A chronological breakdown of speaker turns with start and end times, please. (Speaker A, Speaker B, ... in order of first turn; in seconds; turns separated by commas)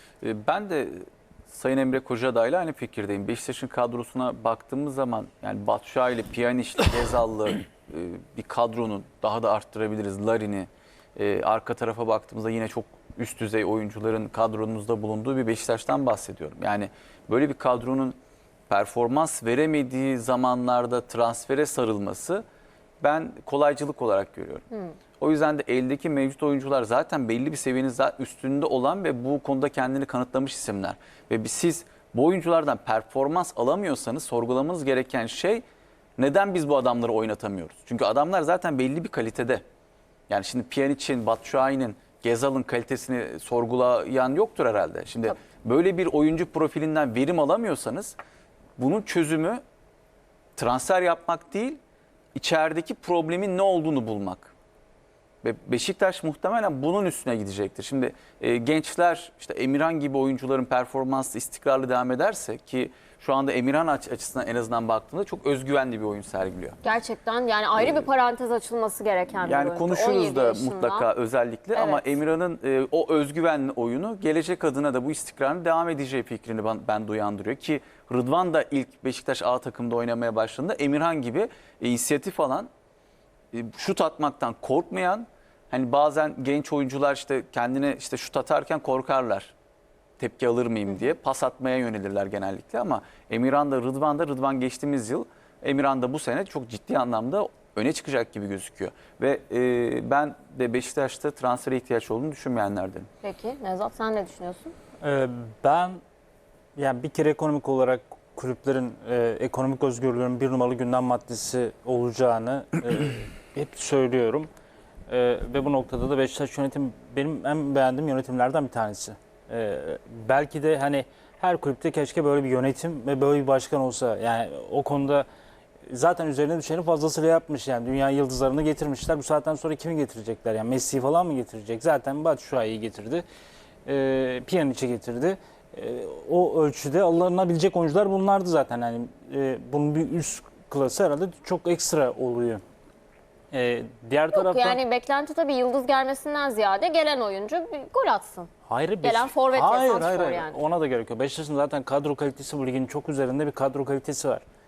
Speaker A: 0.2-18.2, Speaker A: 18.7-22.4, Speaker A: 23.0-24.6, Speaker A: 25.2-35.6, Speaker A: 36.2-39.6, Speaker A: 40.3-48.2, Speaker A: 48.8-49.6, Speaker A: 50.6-51.8, Speaker A: 52.4-54.5, Speaker A: 55.4-66.8, Speaker B: 66.8-71.1, Speaker A: 67.8-68.1, Speaker A: 69.4-82.7, Speaker B: 71.8-72.0, Speaker A: 83.5-89.5, Speaker A: 90.2-103.1, Speaker B: 103.2-104.7, Speaker C: 105.0-106.0, Speaker C: 106.8-114.5, Speaker C: 115.1-125.2, Speaker C: 125.9-133.2, Speaker C: 133.9-142.6, Speaker C: 143.5-144.8, Speaker B: 144.3-148.5, Speaker C: 148.7-154.4, Speaker B: 149.0-150.6